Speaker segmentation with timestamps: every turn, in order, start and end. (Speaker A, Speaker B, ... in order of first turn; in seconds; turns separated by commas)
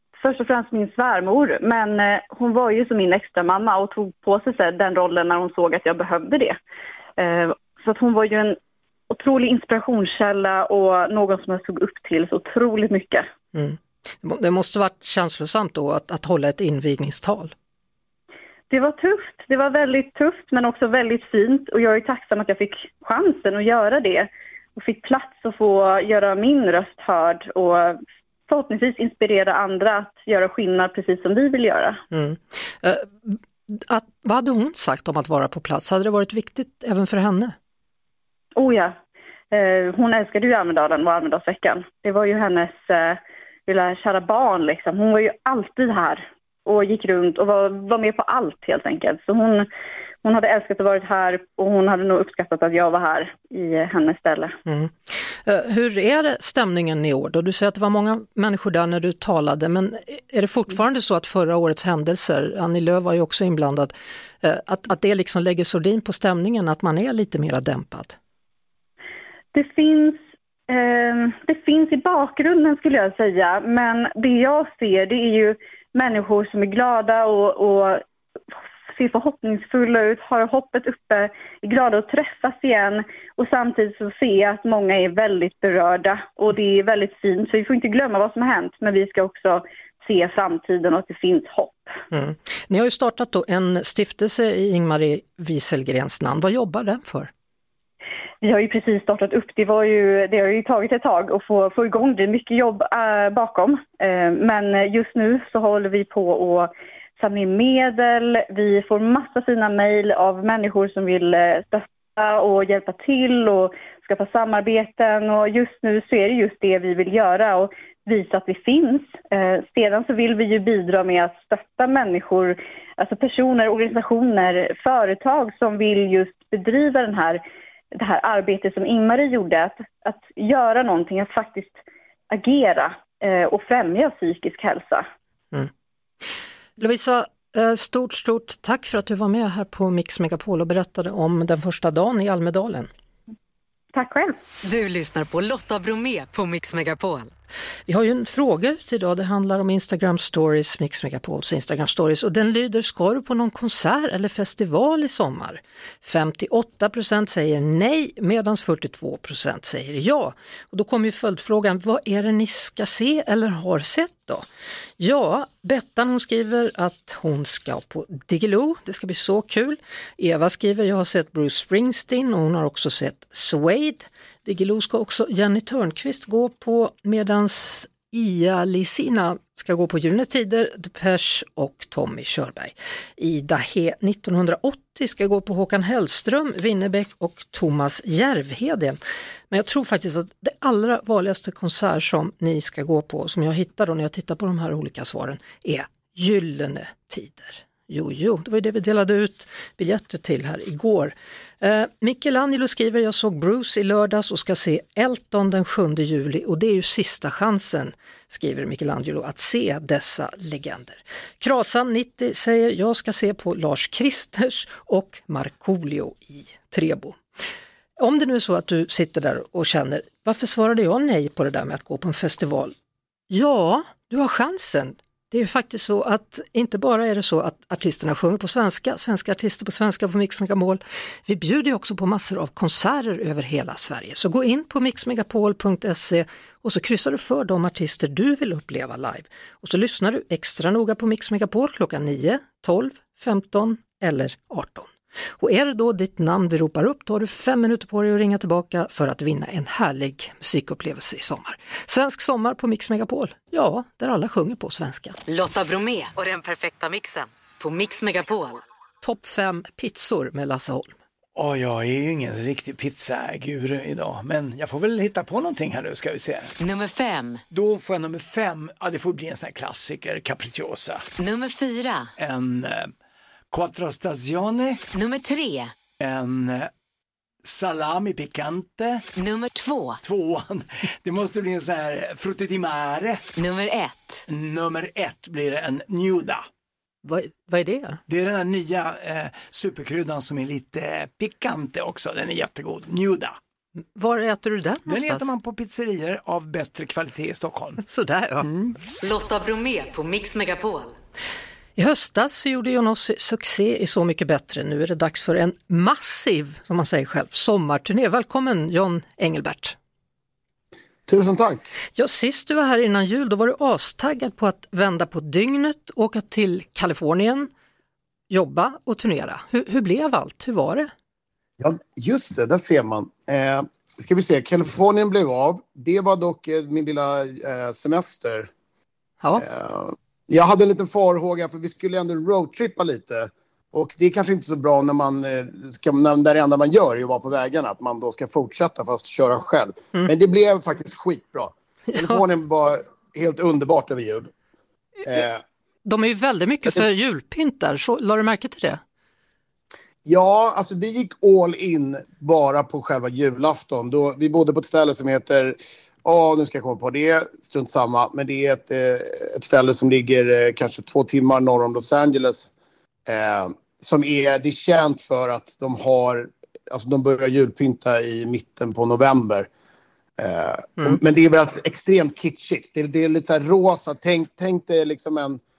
Speaker A: 0.2-6.6, Speaker A: 7.2-8.6, Speaker A: 9.1-13.3, Speaker B: 13.5-17.5, Speaker A: 18.7-32.0, Speaker B: 32.1-37.5, Speaker A: 38.5-38.9, Speaker A: 39.5-49.7, Speaker A: 50.2-54.5, Speaker B: 54.7-68.2, Speaker A: 69.5-78.0, Speaker A: 78.9-91.9, Speaker B: 92.1-97.3, Speaker A: 98.4-127.4, Speaker A: 127.9-131.8, Speaker A: 132.3-135.1, Speaker B: 136.8-142.9, Speaker A: 143.9-144.4, Speaker C: 144.6-147.3, Speaker B: 147.9-164.4, Speaker B: 165.0-189.0, Speaker B: 189.5-217.2, Speaker B: 218.0-222.7, Speaker B: 223.3-255.2, Speaker C: 255.3-258.6, Speaker B: 259.0-260.9, Speaker D: 261.4-266.5, Speaker C: 266.6-267.4, Speaker D: 267.5-271.1, Speaker C: 271.2-272.1, Speaker D: 272.2-272.9, Speaker D: 273.5-274.8, Speaker C: 274.9-275.7, Speaker D: 276.0-276.7, Speaker D: 277.4-279.1, Speaker C: 279.1-280.0, Speaker D: 280.0-283.3, Speaker C: 283.3-284.2, Speaker D: 284.3-286.4, Speaker B: 287.0-288.0, Speaker D: 288.1-293.4, Speaker B: 293.9-295.3, Speaker D: 294.9-297.8, Speaker B: 297.8-298.5, Speaker D: 298.4-298.8, Speaker C: 299.0-300.9, Speaker B: 301.8-309.7, Speaker E: 311.1-311.7, Speaker B: 312.0-317.5, Speaker B: 318.3-320.9, Speaker E: 321.6-328.5, Speaker E: 329.4-344.3, Speaker B: 341.9-342.2, Speaker E: 345.0-345.4, Speaker B: 345.9-348.8, Speaker E: 350.0-362.5, Speaker E: 363.1-369.5, Speaker E: 370.2-375.4